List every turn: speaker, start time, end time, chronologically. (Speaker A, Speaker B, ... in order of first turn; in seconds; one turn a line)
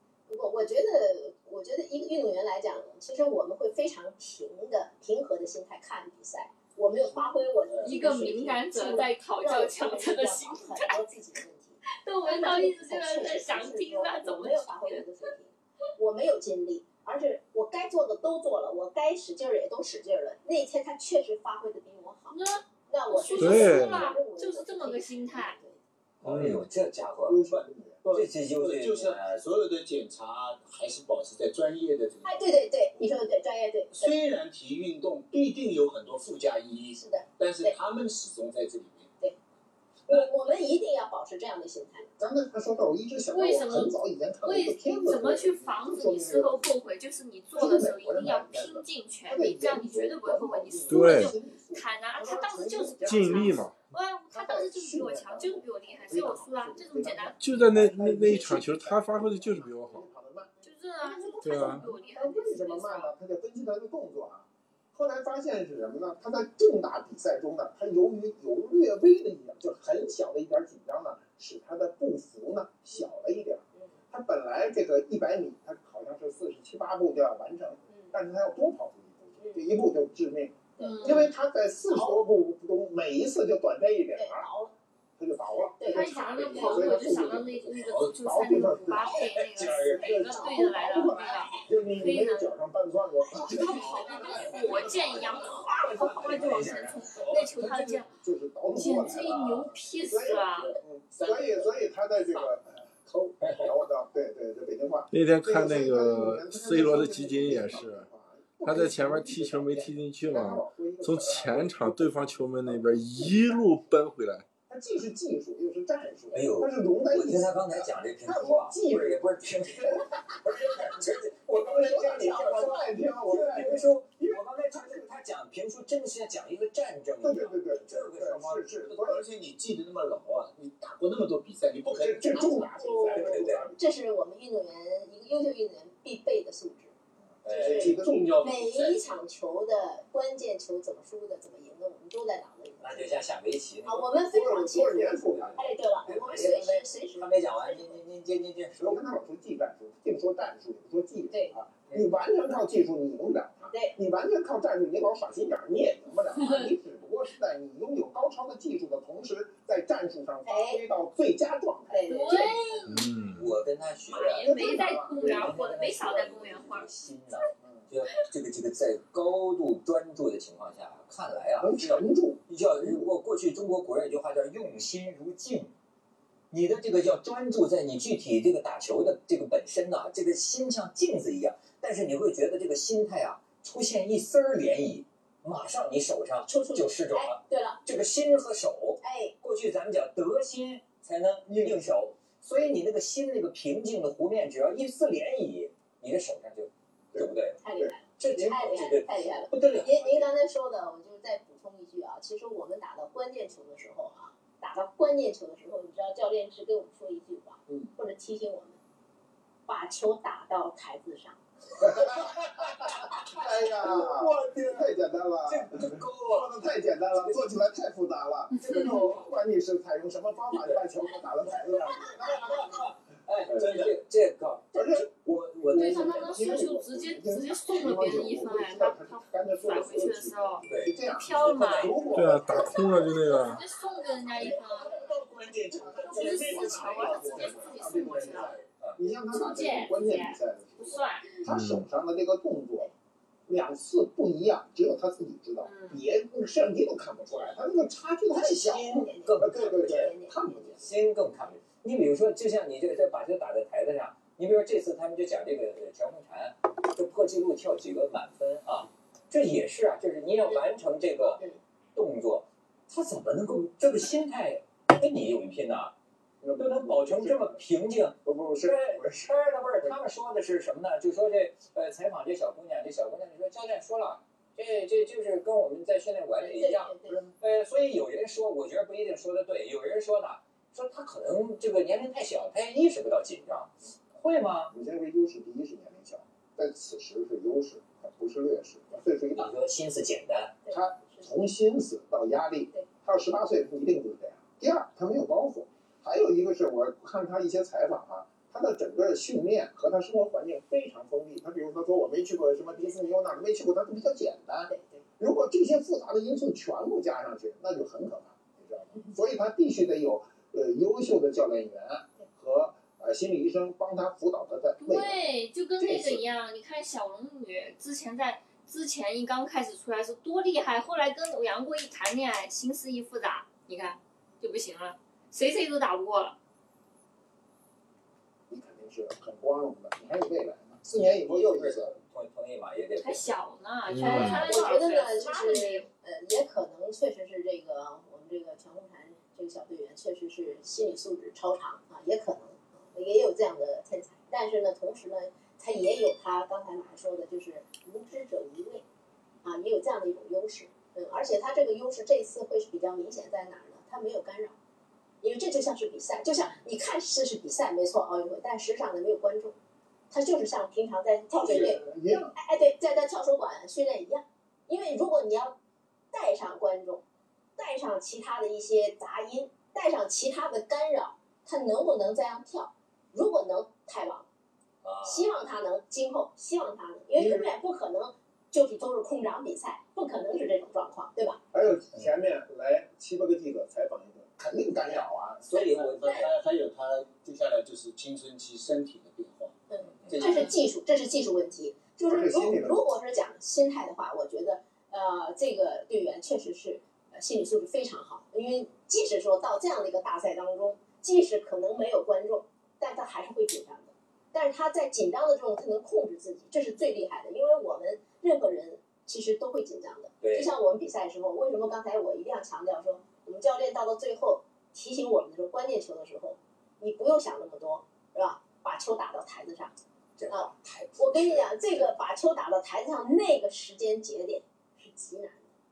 Speaker A: 0.3-25.8
Speaker B: 7.0-8.2
Speaker C: 7.8-11.1
Speaker C: 11.9-15.0
Speaker C: 22.3-25.6
Speaker D: 23.4-24.0
Speaker E: 26.2-27.4
Speaker D: 26.2-26.7
Speaker F: 27.3-28.0
Speaker B: 27.4-32.5
Speaker E: 28.1-29.4
Speaker A: 32.2-34.2
Speaker B: 33.9-39.1
Speaker A: 37.0-37.8
Speaker A: 40.1-42.1
Speaker F: 42.2-46.7
Speaker C: 43.3-57.4
Speaker F: 47.5-53.7
Speaker D: 50.9-51.3
Speaker D: 53.0-53.8
Speaker F: 54.3-60.5
Speaker D: 57.4-60.0
Speaker C: 60.6-63.1
Speaker A: 61.0-61.9
Speaker F: 61.3-84.5
Speaker D: 61.4-61.9
Speaker A: 77.9-78.1
Speaker A: 79.4-79.6
Speaker A: 80.8-81.3
Speaker C: 80.8-81.3
Speaker A: 81.9-82.2
Speaker A: 84.2-84.7
Speaker F: 85.2-87.6
Speaker A: 85.6-87.1
Speaker C: 85.8-92.5
Speaker B: 86.9-88.2
Speaker F: 88.2-95.6
Speaker E: 89.2-90.2
Speaker A: 90.1-91.6
Speaker A: 93.2-96.0
Speaker C: 93.5-98.1
Speaker B: 93.9-95.2
Speaker E: 95.5-97.3
Speaker F: 97.6-113.7
Speaker C: 98.7-100.7
Speaker B: 99.1-99.7
Speaker B: 100.3-101.7
Speaker B: 102.2-102.5
Speaker B: 103.1-103.6
Speaker E: 103.4-103.7
Speaker D: 105.1-108.1
Speaker D: 108.6-114.5
Speaker F: 114.7-120.1
Speaker E: 116.3-129.0
Speaker F: 121.5-125.1
Speaker A: 121.8-122.7
Speaker F: 127.2-129.2
Speaker B: 129.0-132.7
Speaker F: 131.9-133.8
Speaker A: 132.7-136.9
Speaker E: 133.1-133.7
Speaker F: 137.4-138.3
Speaker E: 137.4-138.0
Speaker B: 137.5-139.1
Speaker A: 137.6-143.2
Speaker E: 142.8-144.1
Speaker A: 143.8-148.0
Speaker F: 144.3-146.1
Speaker E: 145.2-149.0
Speaker F: 148.8-162.4
Speaker A: 151.3-151.6
Speaker E: 151.9-152.1
Speaker C: 156.4-156.7
Speaker A: 160.4-160.8
Speaker A: 161.9-162.6
Speaker C: 162.1-163.1
Speaker D: 162.9-163.5
Speaker E: 163.3-175.7
Speaker C: 164.1-166.9
Speaker F: 164.4-165.5
Speaker F: 167.6-167.9
Speaker F: 171.6-173.1
Speaker E: 176.5-197.6
Speaker A: 186.4-187.8
Speaker A: 189.0-189.3
Speaker F: 191.5-191.9
Speaker F: 197.1-197.9
Speaker A: 197.6-208.8
Speaker E: 198.2-200.3
Speaker A: 209.7-211.4
Speaker F: 211.8-222.8
Speaker E: 211.9-214.9
Speaker E: 215.4-217.4
Speaker C: 218.6-219.0
Speaker E: 218.6-219.3
Speaker E: 220.5-220.8
Speaker E: 221.9-226.6
Speaker F: 223.5-223.9
Speaker B: 223.6-223.9
Speaker F: 224.7-233.3
Speaker C: 225.7-232.0
Speaker E: 230.7-233.0
Speaker D: 232.1-233.6
Speaker C: 233.2-235.0
Speaker B: 234.4-237.8
Speaker F: 235.7-242.9
Speaker C: 236.0-238.6
Speaker E: 238.1-239.0
Speaker C: 239.3-241.4
Speaker D: 241.4-241.8
Speaker F: 243.5-250.8
Speaker C: 245.6-246.0
Speaker E: 247.3-247.6
Speaker E: 248.3-250.1
Speaker A: 248.4-250.8
Speaker E: 250.8-261.4
Speaker E: 261.9-265.9
Speaker F: 266.4-267.6
Speaker E: 266.6-284.7
Speaker F: 268.2-269.9
Speaker A: 276.4-277.2
Speaker F: 284.7-289.5
Speaker E: 289.3-290.6
Speaker A: 290.6-291.3
Speaker F: 290.7-315.3
Speaker A: 302.8-303.1
Speaker A: 304.7-305.0
Speaker C: 314.8-326.4
Speaker F: 315.8-316.2
Speaker F: 328.5-331.9
Speaker E: 330.9-333.3
Speaker C: 333.0-335.9
Speaker D: 333.9-334.5
Speaker A: 334.1-348.8
Speaker A: 349.4-354.5
Speaker A: 355.2-359.5
Speaker A: 360.1-361.8
Speaker F: 361.4-362.4
Speaker A: 362.3-365.5
Speaker A: 366.1-367.0
Speaker A: 367.6-374.3
Speaker E: 374.8-375.3
Speaker A: 375.0-381.4
Speaker F: 377.1-377.5
Speaker F: 381.5-385.5
Speaker E: 384.8-386.4
Speaker B: 385.6-389.6
Speaker A: 389.7-419.7
Speaker E: 390.0-390.5
Speaker B: 390.1-390.5
Speaker F: 392.0-392.8
Speaker E: 410.2-410.5
Speaker E: 420.2-421.9
Speaker A: 420.3-425.5